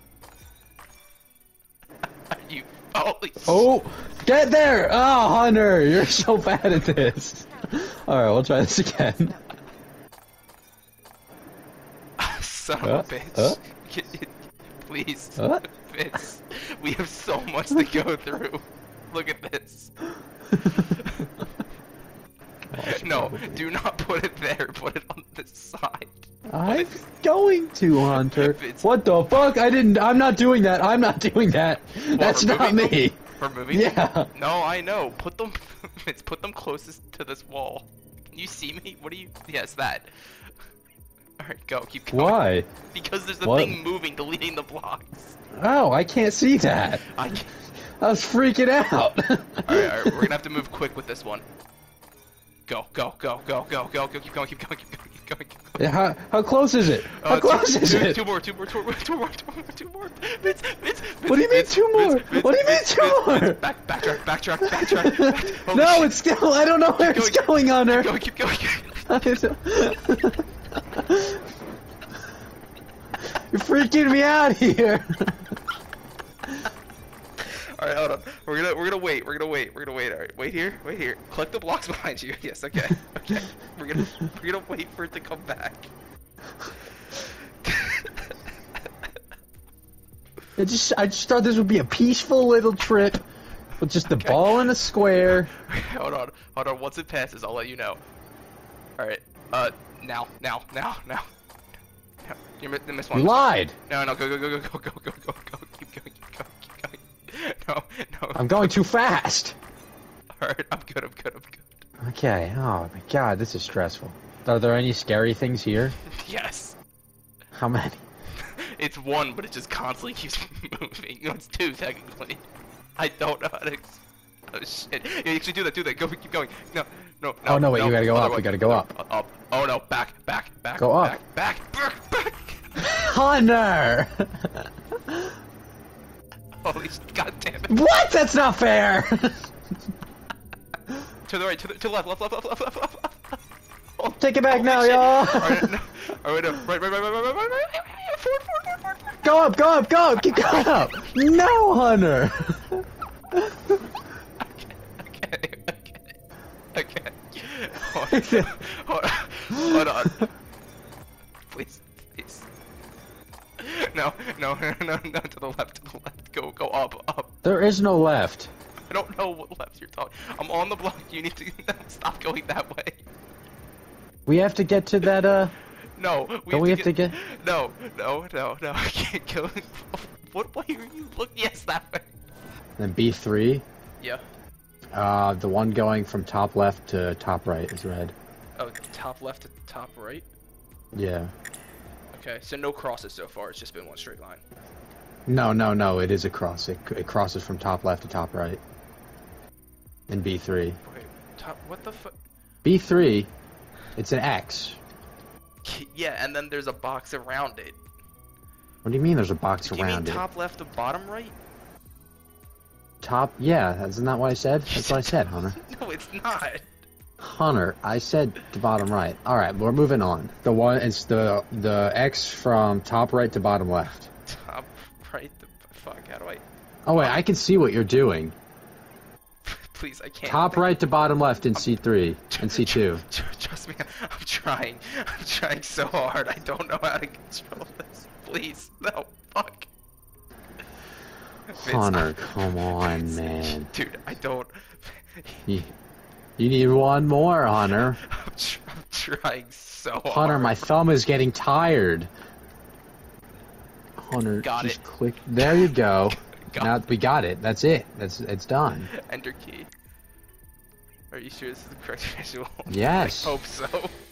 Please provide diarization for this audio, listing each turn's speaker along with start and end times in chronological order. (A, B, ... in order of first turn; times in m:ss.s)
0:02.3-0:03.7 A
0:03.4-0:09.4 B
0:12.2-0:19.9 A
0:12.8-0:13.6 B
0:15.4-0:15.6 B
0:20.5-0:20.9 B
0:20.8-0:21.3 A
0:22.7-0:23.6 B
0:22.8-0:27.0 A
0:26.5-0:34.3 B
0:28.0-0:28.9 A
0:32.1-0:40.1 A
0:41.4-0:42.4 A
0:42.1-0:42.7 B
0:42.9-0:45.4 A
0:43.4-0:43.8 B
0:45.5-0:47.1 B
0:47.1-0:47.5 A
0:48.0-0:50.3 B
0:49.6-0:51.4 A
0:52.7-0:55.8 A
0:55.8-0:58.2 B
0:57.1-1:06.2 A
1:01.2-1:03.6 B
1:04.6-1:08.1 B
1:07.0-1:09.2 A
1:09.1-1:11.4 B
1:13.5-1:15.5 B
1:17.4-1:25.9 A
1:27.6-1:28.3 A
1:30.6-1:33.2 B
1:33.8-1:35.5 B
1:34.1-1:34.7 A
1:35.5-1:38.0 A
1:39.0-1:41.3 A
1:42.2-1:48.7 A
1:43.1-1:43.7 B
1:48.3-1:49.6 B
1:50.4-1:51.8 A
1:52.0-1:56.0 B
1:56.0-1:56.8 A
1:57.5-1:58.0 B
1:58.4-2:02.4 A
2:03.0-2:12.8 A
2:07.4-2:08.9 B
2:10.8-2:11.2 B
2:12.8-2:15.3 B
2:16.6-2:17.7 A
2:17.7-2:19.5 B
2:21.2-2:23.4 A
2:24.0-2:25.7 B
2:24.5-2:29.2 A
2:29.2-2:33.8 B
2:30.1-2:31.1 A
2:34.4-2:36.1 A
2:36.7-2:40.3 A
2:38.0-2:38.5 B
2:39.6-2:40.1 B
2:41.4-2:42.5 A
2:43.6-2:47.3 A
2:47.4-2:48.5 B
2:48.9-2:53.0 A
2:54.2-2:55.5 B
2:56.0-3:02.1 A
2:56.5-2:57.2 B
3:02.8-3:03.6 B
3:04.9-3:08.1 B
3:08.6-3:10.2 A
3:10.9-3:11.3 B
3:12.1-3:14.4 A
3:15.3-3:18.6 B
3:20.1-3:20.8 B
3:20.8-3:22.2 A
3:22.6-3:23.3 B
3:24.0-3:24.8 B
3:25.6-3:27.8 A
3:28.8-3:30.2 B
3:29.6-3:31.3 A
3:33.0-3:35.6 B
3:34.7-3:36.7 A
3:37.2-3:44.1 B
3:44.2-3:46.4 A
3:46.8-3:48.4 B
3:49.4-3:50.8 A
3:50.2-3:53.0 B
3:52.3-3:59.7 A
4:01.5-4:05.5 A
4:01.6-4:03.7 B
4:05.5-4:05.7 B
4:06.4-4:08.0 B
4:07.8-4:10.6 A
4:10.1-4:12.1 B
4:14.0-4:18.9 B
4:14.4-4:14.8 A
4:15.4-4:15.8 A
4:16.4-4:16.8 A
4:18.9-4:19.7 A
4:21.1-4:23.9 A
4:22.7-4:23.4 B